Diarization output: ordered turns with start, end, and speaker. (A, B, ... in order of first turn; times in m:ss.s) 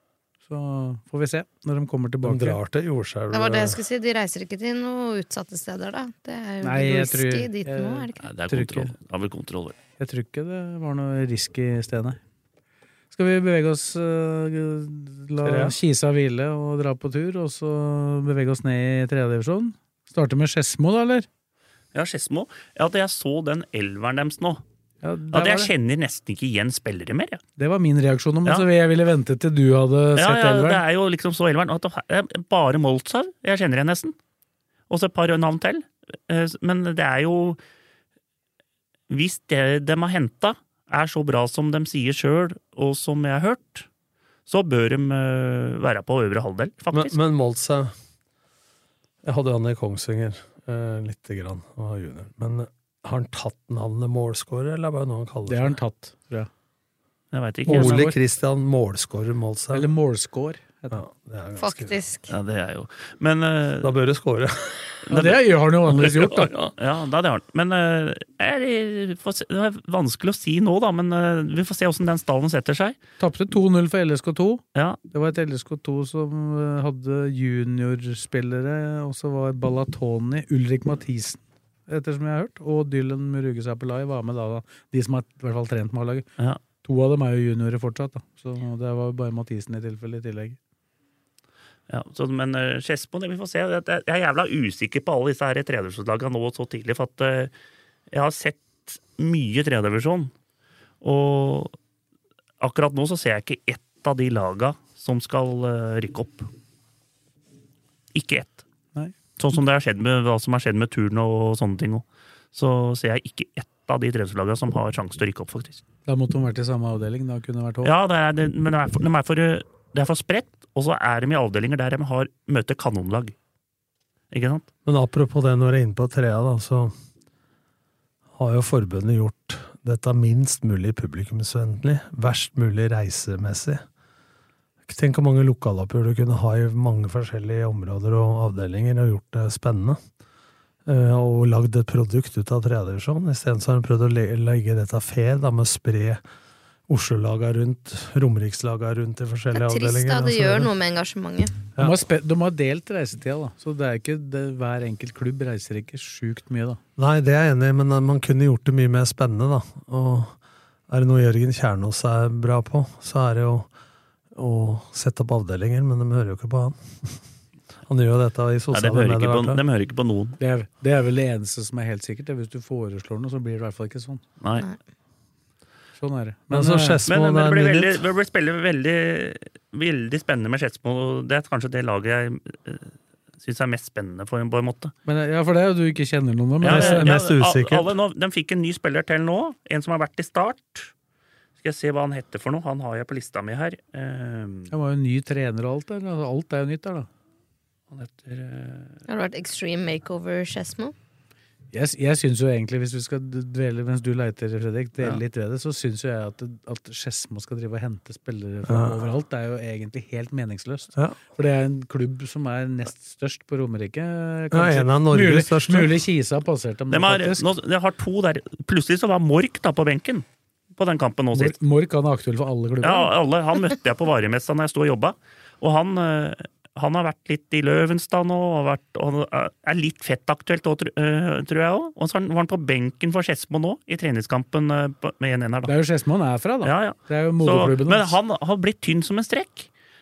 0:00.5-0:02.6 A
0:02.2-0:03.8 B
0:03.3-0:08.2 C
0:06.6-0:08.9 A
0:08.2-0:09.8 D
0:10.0-0:12.2 A
0:13.1-0:21.3 A
0:15.4-0:15.7 B
0:21.9-0:24.6 D
0:25.0-0:25.7 A
0:25.3-0:27.4 D
0:27.6-0:30.8 A
0:30.2-0:34.1 D
0:34.9-0:37.6 D
0:39.1-0:43.9 D
0:44.5-0:47.2 D
0:46.9-0:47.9 B
0:49.2-0:55.8 B
0:55.5-0:56.5 A
0:57.3-0:58.1 D
0:57.6-0:59.9 B
0:57.7-0:58.1 A
0:59.7-1:01.0 A
1:00.9-1:02.0 B
1:01.6-1:02.3 C
1:02.3-1:03.9 D
1:03.8-1:05.0 B
1:05.1-1:05.4 D
1:05.1-1:06.5 A
1:05.9-1:13.0 D
1:13.2-1:26.2 A
1:26.8-1:30.6 A
1:31.9-1:37.5 D
1:38.1-1:40.3 D
1:41.0-1:41.7 D
1:42.6-1:46.5 D
1:48.1-1:48.6 D
1:49.4-1:55.8 D
1:56.0-1:57.9 A
1:57.8-2:03.3 D
2:04.3-2:04.6 D
2:04.8-2:06.9 B
2:08.3-2:13.8 B
2:14.9-2:20.0 B
2:20.8-2:26.2 B
2:26.9-2:30.7 B
2:29.5-2:31.5 C
2:31.8-2:36.8 A
2:37.0-2:40.4 B
2:40.9-2:43.7 B
2:44.3-2:47.2 B
2:47.9-2:49.6 B
2:48.7-2:50.4 D
2:50.4-2:54.2 A
2:54.4-2:54.7 D
2:56.0-2:57.0 A
2:56.5-2:58.0 B
2:57.1-3:04.9 D
3:05.0-3:07.1 A
3:06.6-3:10.9 D
3:06.6-3:07.9 B
3:11.6-3:14.7 D
3:14.7-3:17.1 A
3:17.9-3:19.0 D
3:19.1-3:20.9 C
3:21.7-3:37.5 A
3:28.7-3:29.0 B
3:34.5-3:36.0 B
3:36.9-3:40.2 D
3:40.8-3:41.6 D
3:41.3-3:43.1 A
3:42.8-3:55.7 D
3:55.6-3:58.1 A
3:56.6-3:59.7 D